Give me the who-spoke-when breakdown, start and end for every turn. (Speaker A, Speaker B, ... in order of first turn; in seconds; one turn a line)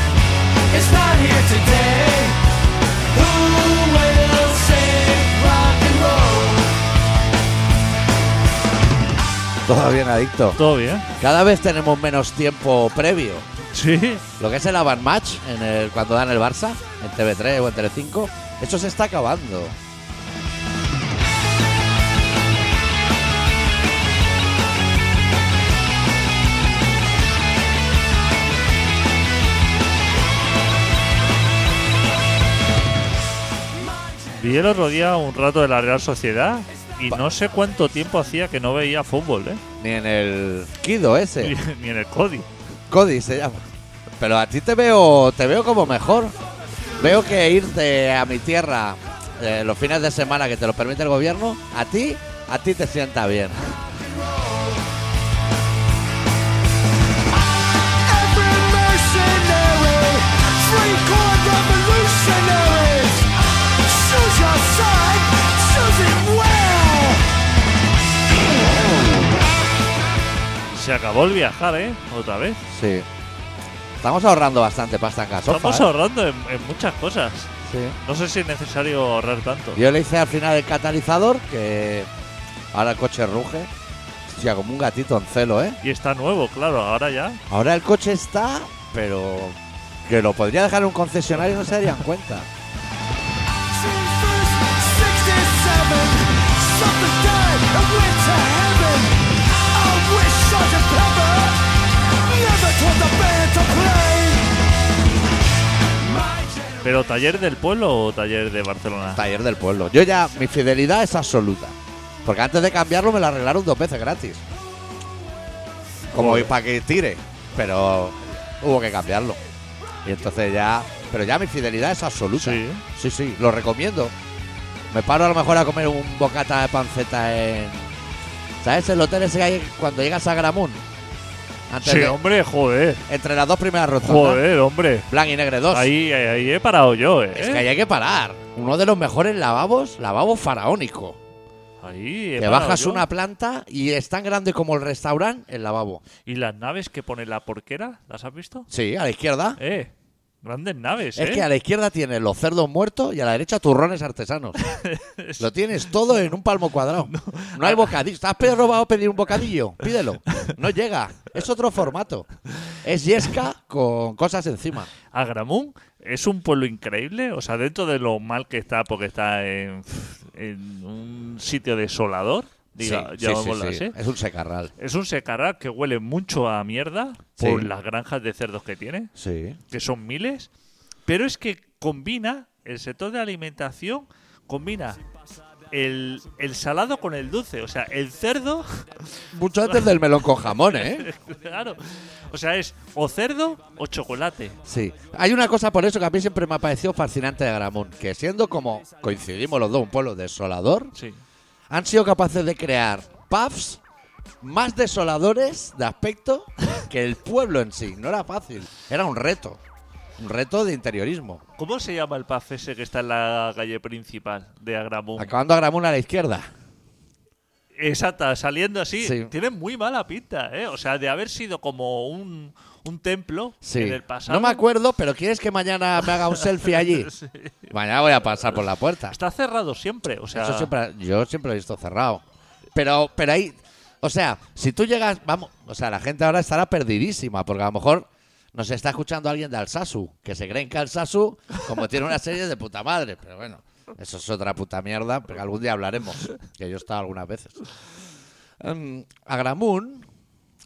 Speaker A: 0.7-2.4
Speaker A: 3.1-6.7
Speaker B: 9.7-10.6
Speaker C: 10.6-11.1
Speaker B: 11.2-13.5
Speaker C: 13.7-14.2
Speaker B: 14.4-19.8
Speaker C: 34.3-39.6
Speaker B: 39.8-41.5
Speaker C: 41.4-42.5
Speaker B: 42.9-43.6
Speaker B: 44.2-46.3
Speaker B: 47.0-53.6
Speaker A: 54.1-54.7
Speaker A: 57.7-67.3
Speaker C: 70.7-72.6
Speaker B: 72.7-73.1
Speaker B: 74.0-75.9
Speaker C: 75.5-79.8
Speaker B: 77.7-78.0
Speaker B: 79.7-82.1
Speaker B: 82.7-83.7
Speaker B: 84.3-85.8
Speaker C: 85.8-87.4
Speaker B: 87.5-92.5
Speaker A: 93.6-104.6
Speaker A: 106.0-106.8
Speaker C: 106.8-109.2
Speaker B: 109.1-114.4
Speaker B: 116.1-119.4
Speaker C: 116.1-116.5
Speaker B: 120.0-124.1
Speaker C: 122.4-122.8
Speaker B: 124.9-127.9
Speaker B: 128.6-130.8
Speaker B: 131.7-132.2
Speaker C: 131.8-133.0
Speaker B: 133.1-134.4
Speaker C: 134.0-135.1
Speaker B: 135.1-135.9
Speaker C: 135.7-137.7
Speaker B: 137.3-141.2
Speaker C: 141.8-143.1
Speaker B: 142.4-146.0
Speaker C: 146.2-148.7
Speaker B: 148.7-149.6
Speaker C: 149.6-151.5
Speaker B: 151.2-154.6
Speaker C: 154.6-155.5
Speaker B: 155.4-162.3
Speaker C: 157.1-158.0
Speaker B: 162.8-164.9
Speaker C: 165.1-173.9
Speaker B: 172.8-174.7
Speaker C: 174.8-179.1
Speaker B: 177.4-177.7
Speaker B: 179.2-179.6
Speaker C: 179.7-180.5
Speaker C: 181.1-185.0
Speaker C: 185.7-194.6
Speaker B: 189.3-191.1
Speaker B: 194.6-200.9
Speaker C: 200.9-201.2
Speaker B: 201.7-203.8
Speaker B: 204.4-209.6
Speaker B: 210.2-211.4
Speaker C: 211.6-215.3
Speaker B: 215.2-216.5
Speaker C: 217.8-224.6
Speaker B: 219.0-219.3
Speaker B: 223.6-227.1
Speaker C: 226.3-227.7
Speaker B: 227.7-229.2
Speaker C: 229.1-230.7
Speaker B: 230.3-247.6
Speaker B: 248.6-250.0